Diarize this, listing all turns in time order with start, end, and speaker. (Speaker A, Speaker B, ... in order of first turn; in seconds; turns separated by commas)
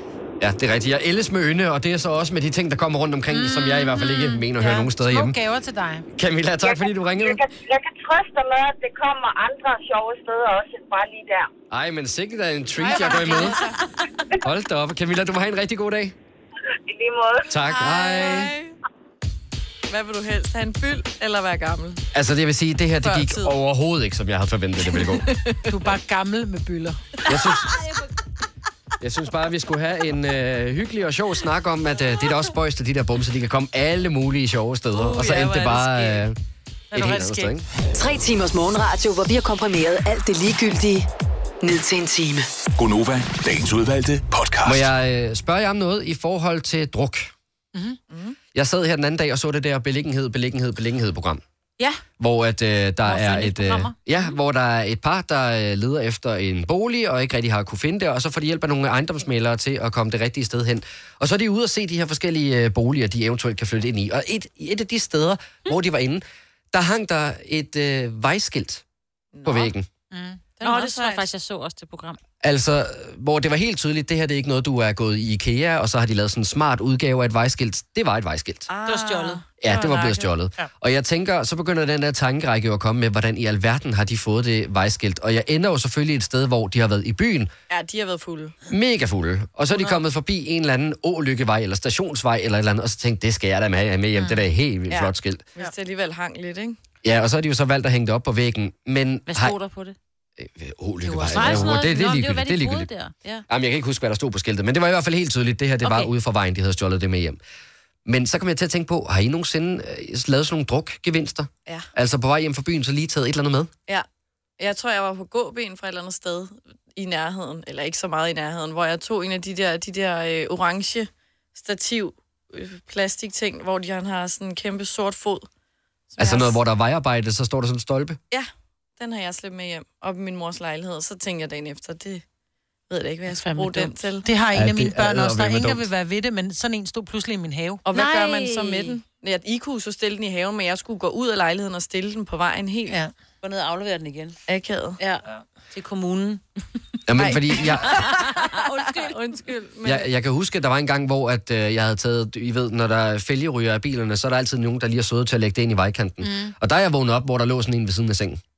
Speaker A: 0.4-5.4, Speaker B: 3.3-6.1, Speaker A: 6.1-7.4, Speaker C: 6.6-11.5, Speaker A: 11.7-13.6, Speaker B: 12.8-13.6, Speaker D: 12.9-13.8, Speaker A: 14.4-16.1, Speaker C: 16.9-17.4, Speaker A: 17.5-18.5, Speaker D: 17.9-18.8, Speaker D: 19.9-22.0, Speaker A: 22.1-25.3, Speaker D: 23.0-23.6, Speaker D: 24.9-25.7, Speaker B: 25.7-27.2, Speaker A: 27.3-27.7, Speaker A: 29.0-36.4, Speaker D: 34.9-36.3, Speaker B: 36.9-37.5, Speaker A: 36.9-37.6, Speaker E: 37.9-41.1, Speaker E: 41.6-42.5, Speaker F: 42.8-44.9, Speaker A: 44.6-47.3, Speaker B: 47.7-48.0, Speaker D: 48.1-48.4, Speaker A: 48.5-51.4, Speaker A: 52.2-68.8, Speaker G: 53.0-54.0, Speaker D: 69.3-69.7, Speaker A: 69.5-69.8, Speaker B: 70.1-70.4, Speaker D: 70.6-71.2, Speaker G: 70.6-72.2, Speaker A: 72.4-78.7, Speaker D: 78.7-79.5, Speaker B: 78.8-80.7, Speaker A: 79.6-87.5, Speaker D: 87.7-88.5, Speaker A: 88.7-95.5, Speaker B: 94.2-94.4, Speaker D: 94.9-96.8, Speaker A: 97.0-99.5, Speaker G: 99.3-100.0, Speaker A: 100.4-102.9, Speaker G: 101.0-103.4, Speaker B: 101.3-101.7, Speaker A: 103.5-107.4, Speaker G: 105.8-106.1, Speaker A: 108.0-113.7, Speaker D: 114.6-125.5, Speaker D: 126.1-126.6, Speaker A: 126.2-128.2, Speaker D: 128.3-132.2, Speaker D: 132.9-134.2, Speaker G: 133.3-133.9, Speaker B: 134.2-137.8, Speaker A: 134.5-135.8, Speaker D: 137.8-143.0, Speaker G: 137.9-138.9, Speaker G: 143.4-144.4, Speaker D: 144.5-145.0, Speaker G: 145.0-146.4, Speaker A: 147.1-148.0, Speaker D: 147.2-150.1, Speaker G: 147.7-149.2, Speaker A: 149.8-158.4, Speaker B: 156.2-156.5